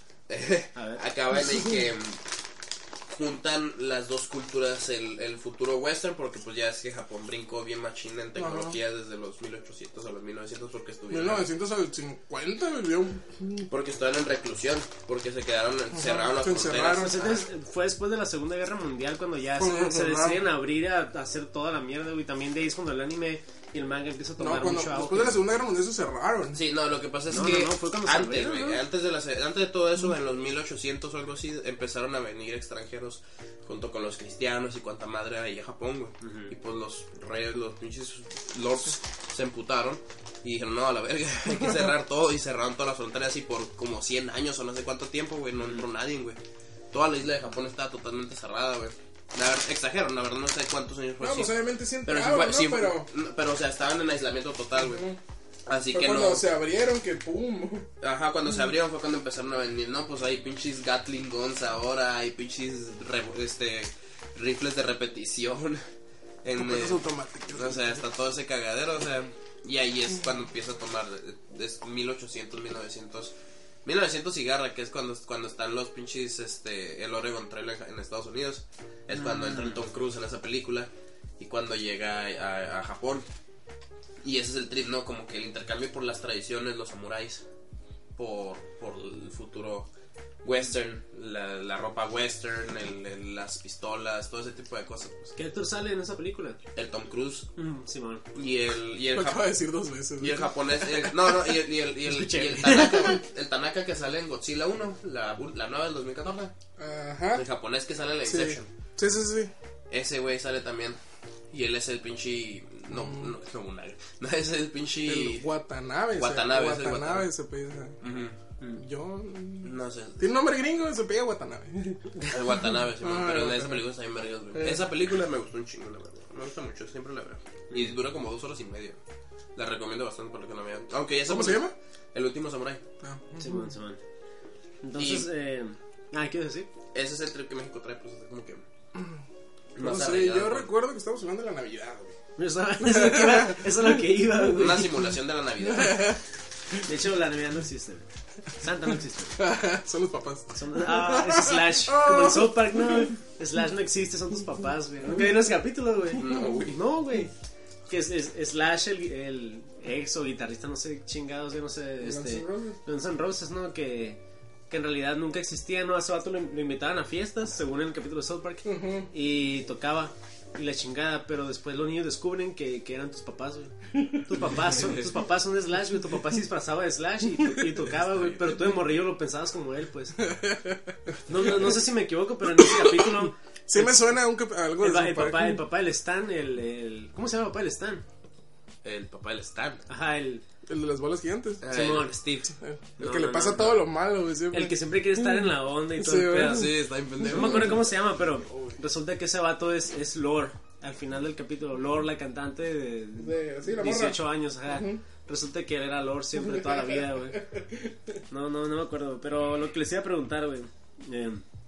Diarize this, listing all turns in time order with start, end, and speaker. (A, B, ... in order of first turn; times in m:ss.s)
0:00.3-0:02.2 A
0:00.8-0:01.0 B
0:03.1-0:11.5 A
0:08.4-0:08.8 C
0:11.1-0:13.7 C
0:13.7-0:17.4 A
0:15.9-0:17.2 C
0:16.9-0:25.4 B
0:19.6-0:20.4 C
0:24.4-0:26.6 C
0:26.5-0:46.4 A
0:27.3-0:28.8 B
0:36.2-0:36.5 B
0:46.9-0:51.5 A
0:51.2-0:53.1 C
0:52.1-0:55.1 A
0:54.8-0:55.2 C
0:55.7-0:56.4 A
0:55.9-0:57.9 C
0:58.0-1:05.8 A
1:06.4-1:13.3 A
1:06.6-1:08.0 C
1:13.8-1:23.3 A
1:19.1-1:19.8 B
1:24.2-1:27.4 A
1:28.2-1:29.9 A
1:30.4-1:35.4 A
1:35.4-1:36.6 B
1:36.8-1:37.5 A
1:37.6-1:38.2 B
1:38.3-1:39.5 A
1:39.1-1:41.3 C
1:40.2-1:46.5 A
1:42.1-1:43.2 B
1:46.8-1:47.4 C
1:47.4-1:48.7 A
1:48.2-1:49.5 C
1:49.9-1:51.0 A
1:51.5-1:55.4 A
1:52.9-1:53.3 C
1:55.0-1:58.0 C
1:56.2-1:57.3 A
1:58.0-1:58.4 A
1:58.8-2:02.3 C
1:59.6-2:00.3 A
2:02.3-2:09.0 A
2:03.0-2:03.8 C
2:04.6-2:04.8 C
2:09.6-2:12.8 A
2:11.3-2:11.7 C
2:13.0-2:13.6 C
2:13.4-2:14.0 B
2:14.8-2:16.7 B
2:15.0-2:15.3 A
2:16.9-2:18.6 A
2:19.0-2:19.2 C
2:19.8-2:20.7 A
2:19.8-2:22.2 C
2:22.4-2:24.9 B
2:22.8-2:24.0 C
2:24.6-2:26.2 A
2:25.6-2:26.2 C
2:26.8-2:29.4 B
2:29.4-2:33.1 C
2:30.5-2:37.3 B
2:36.2-2:36.8 A
2:37.9-2:44.2 B
2:42.0-2:42.8 C
2:44.7-2:53.7 B
2:48.6-2:49.1 C
2:53.9-2:54.2 C
2:54.2-3:00.2 B
2:58.1-2:58.5 A
3:00.2-3:01.8 C
3:01.3-3:04.2 B
3:02.6-3:05.6 C
3:04.8-3:08.0 B
3:08.8-3:09.8 A
3:09.9-3:10.4 B
3:10.7-3:11.6 C
3:11.6-3:12.5 A
3:11.7-3:12.5 B
3:12.6-3:16.7 C
3:13.0-3:13.8 B
3:14.5-3:16.7 B
3:16.4-3:17.9 A
3:17.2-3:27.4 B
3:17.3-3:17.7 C
3:18.5-3:18.8 A
3:23.2-3:25.0 C
3:26.4-3:28.2 C
3:28.3-3:31.4 B